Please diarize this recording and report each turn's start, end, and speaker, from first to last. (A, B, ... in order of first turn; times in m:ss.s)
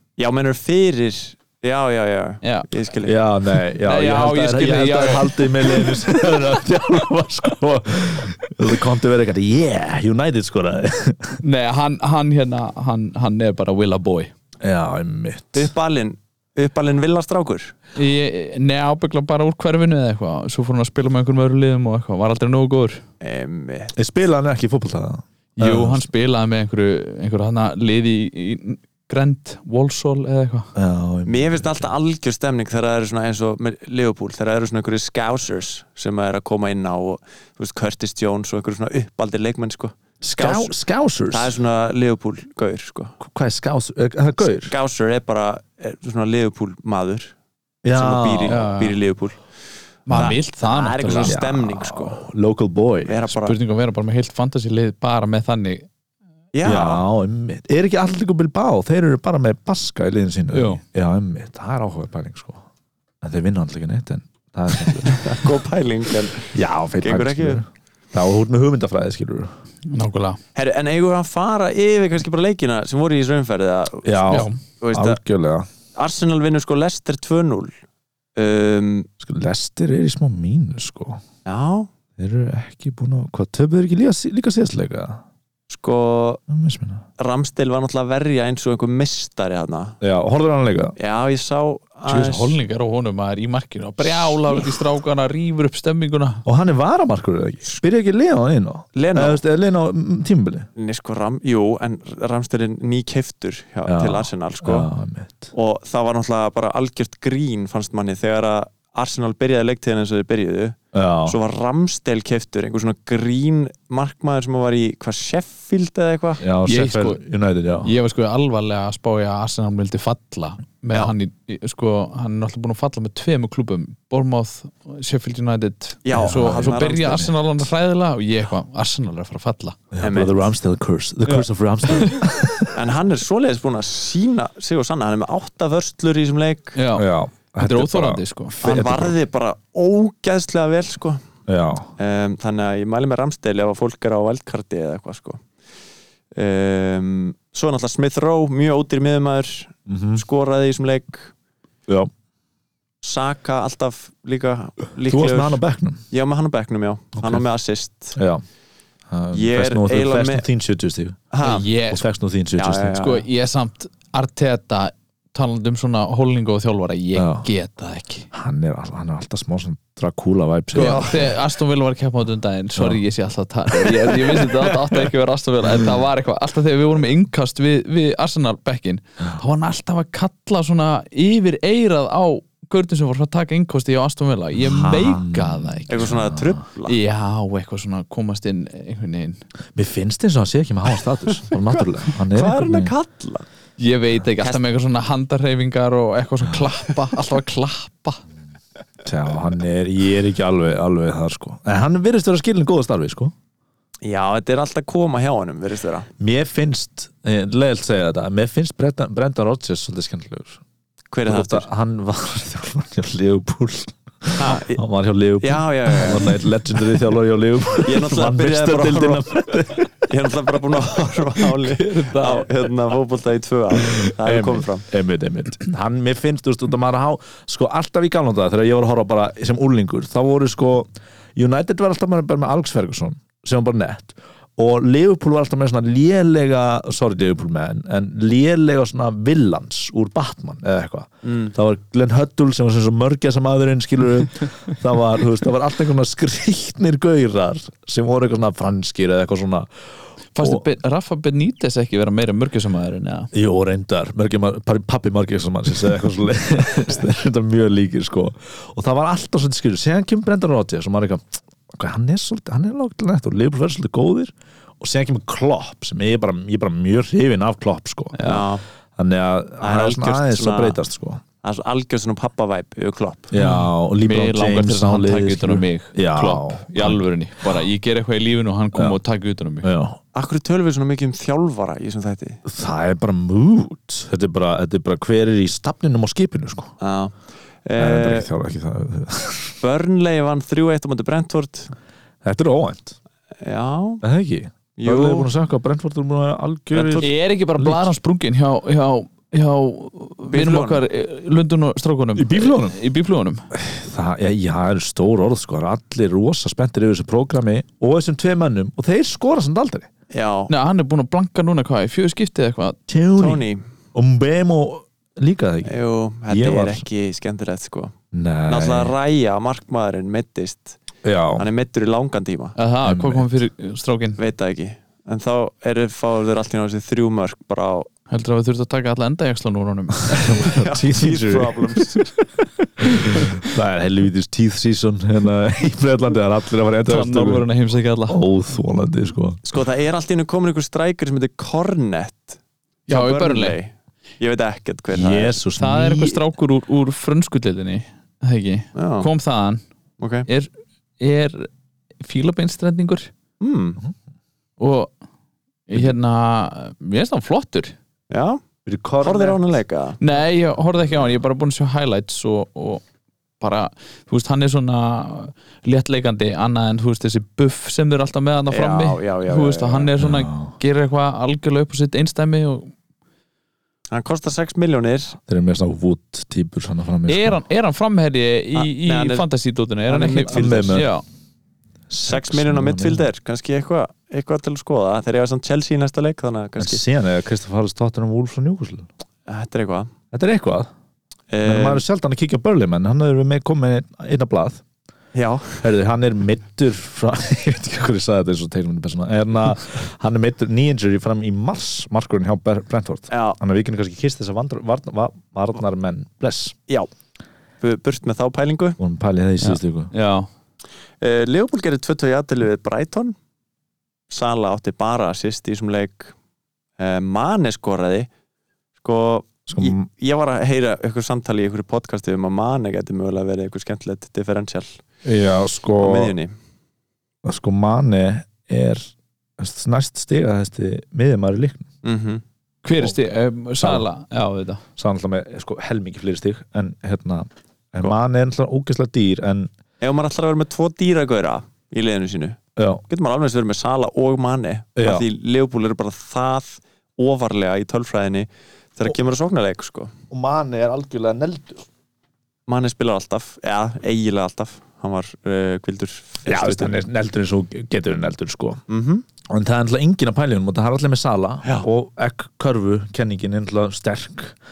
0:00.2-0:03.2 A
0:02.4-0:02.7 B
0:03.0-0:11.4 C
0:03.8-0:06.0 B
0:11.4-0:14.3 B
0:14.6-0:15.7 C
0:15.5-0:17.7 A
0:18.0-0:23.0 B
0:23.2-0:23.9 A
0:24.0-0:26.1 C
0:25.6-0:30.7 B
0:30.8-0:31.9 C
0:31.2-0:40.7 A
0:40.2-0:41.5 C
0:41.3-0:43.2 A
0:43.2-0:44.7 C
0:44.5-0:47.3 A
0:47.8-0:48.6 C
0:47.9-0:49.4 A
0:48.5-0:49.0 B
0:50.1-0:50.4 C
0:50.1-0:51.3 B
0:50.1-0:52.2 A
0:51.2-0:53.2 C
0:53.0-0:53.6 A
0:53.4-0:55.9 B
0:56.5-0:57.0 A
0:56.6-1:02.6 C
1:00.5-1:00.8 B
1:03.2-1:05.5 C
1:05.0-1:07.6 A
1:06.5-1:09.5 C
1:09.9-1:10.4 B
1:10.5-1:15.2 A
1:14.0-1:15.7 C
1:14.3-1:14.6 B
1:15.9-1:17.7 A
1:18.4-1:19.1 A
1:19.2-1:21.2 C
1:21.4-1:21.9 A
1:22.2-1:25.2 C
1:25.7-1:26.4 A
1:26.5-1:27.0 C
1:27.2-1:30.0 A
1:30.0-1:30.9 C
1:31.0-1:32.6 A
1:32.1-1:36.4 B
1:36.4-1:40.7 C
1:38.9-1:39.4 A
1:40.8-1:44.9 A
1:43.8-1:45.5 C
1:45.5-1:56.4 A
1:50.9-1:51.4 C
1:56.4-1:57.9 C
1:56.6-1:57.2 B
1:57.8-2:09.8 B
2:06.0-2:07.3 A
2:06.2-2:07.3 C
2:09.9-2:12.7 C
2:10.0-2:10.5 A
2:11.2-2:12.2 B
2:12.7-2:16.8 A
2:16.8-2:17.1 B
2:16.9-2:19.1 C
2:17.6-2:18.6 B
2:18.6-2:21.2 A
2:21.5-2:21.9 C
2:22.0-2:25.4 A
2:26.4-2:31.3 A
2:29.9-2:30.2 C
2:33.0-2:38.2 A
2:35.0-2:36.0 C
2:37.2-2:37.4 C
2:38.1-2:38.4 C
2:39.1-2:41.2 C
2:39.3-2:40.4 A
2:41.3-2:41.6 A
2:41.4-2:42.0 B
2:41.9-2:43.0 C
2:42.6-2:43.2 A
2:42.9-2:48.3 B
2:47.1-2:47.4 C
2:48.3-2:51.3 C
2:50.7-3:06.1 B
2:50.7-2:51.3 A
2:52.8-2:53.0 C
2:53.7-2:54.9 C
3:04.6-3:06.6 C
3:05.9-3:07.0 A
3:06.8-3:09.4 B
3:09.7-3:12.9 C
3:11.7-3:13.4 A
3:13.8-3:18.2 B
3:19.0-3:23.3 C
3:24.0-3:26.1 A
3:26.2-3:30.6 C
3:31.1-3:31.7 A
3:31.2-3:39.9 C
3:34.4-3:34.8 A
3:35.4-3:36.4 A
3:37.8-3:39.4 A
3:40.0-3:44.8 A
3:41.9-3:42.4 C
3:43.9-4:09.7 C
4:01.2-4:01.5 A
4:10.3-4:13.3 B
4:10.4-4:10.6 C
4:13.3-4:28.4 C
4:28.1-4:28.4 B
4:28.2-4:28.6 A
4:29.0-4:31.2 C
4:29.6-4:30.8 A
4:31.4-4:33.3 A
4:33.3-4:37.6 C
4:33.4-4:39.7 B
4:39.6-4:40.0 C
4:40.1-4:42.4 A
4:42.4-4:46.7 C
4:46.8-4:48.3 A
4:47.8-4:49.6 C
4:49.6-4:51.7 A
4:52.2-4:53.0 C
4:53.4-4:54.0 A
4:54.0-4:57.9 C
4:54.8-4:55.3 A
4:56.7-4:57.1 A
4:57.0-5:03.4 B
5:00.3-5:00.8 A
5:02.2-5:02.8 C
5:03.5-5:09.9 C
5:10.1-5:10.5 A
5:10.5-5:12.8 B
5:12.9-5:15.7 C
5:13.2-5:13.6 A
5:15.6-5:17.9 A
5:16.3-5:16.8 C
5:18.1-5:18.9 C
5:18.5-5:20.8 A
5:21.0-5:21.4 C
5:21.4-5:22.6 A
5:22.6-5:24.2 B
5:22.8-5:23.3 C
5:24.2-5:27.9 A
5:28.1-5:30.5 B
5:30.2-5:32.0 C
5:30.3-5:32.1 A
5:32.8-5:37.5 C
5:36.8-5:38.2 B
5:38.1-5:39.6 C
5:39.4-5:45.4 A
5:42.9-5:43.6 B
5:44.9-5:46.2 C
5:45.6-5:49.6 B
5:48.7-5:49.1 A
5:50.0-5:50.3 A
5:50.3-5:51.5 B
5:52.0-5:53.1 B
5:53.4-5:53.8 A
5:54.6-5:54.9 B
5:55.7-5:57.7 B
5:58.1-5:58.4 A
5:58.6-5:59.4 C
5:59.0-6:00.0 A
6:00.0-6:02.8 B
6:03.4-6:12.7 B
6:08.5-6:09.9 A
6:10.0-6:10.5 C
6:13.9-6:15.2 A
6:15.2-6:17.4 C
6:17.1-6:21.0 B
6:18.5-6:19.2 A
6:19.9-6:20.8 A
6:20.3-6:20.9 C
6:21.9-6:23.1 C
6:22.0-6:26.8 A
6:26.6-6:28.9 C
6:29.3-6:29.9 A
6:30.1-6:30.7 C
6:31.3-6:31.8 A
6:31.4-6:34.6 C
6:35.1-6:35.6 A
6:35.6-6:46.6 C
6:43.1-6:43.4 A
6:47.6-6:48.8 A
6:48.8-6:49.9 C
6:49.4-6:50.3 B
6:51.0-6:53.2 A
6:54.1-6:56.1 A
6:56.8-6:58.1 A
6:58.8-7:04.8 A
6:59.5-6:59.9 C
7:05.0-7:06.1 C
7:05.8-7:06.3 A
7:07.2-7:11.7 C
7:11.8-7:12.2 A
7:12.6-7:14.6 B
7:13.6-7:13.9 C
7:14.8-7:19.5 C
7:19.8-7:29.9 A
7:22.6-7:22.8 C
7:24.8-7:25.1 C
7:30.1-7:31.6 C
7:32.5-7:36.7 A
7:36.2-7:38.6 C
7:38.7-7:39.0 A
7:39.2-7:44.3 C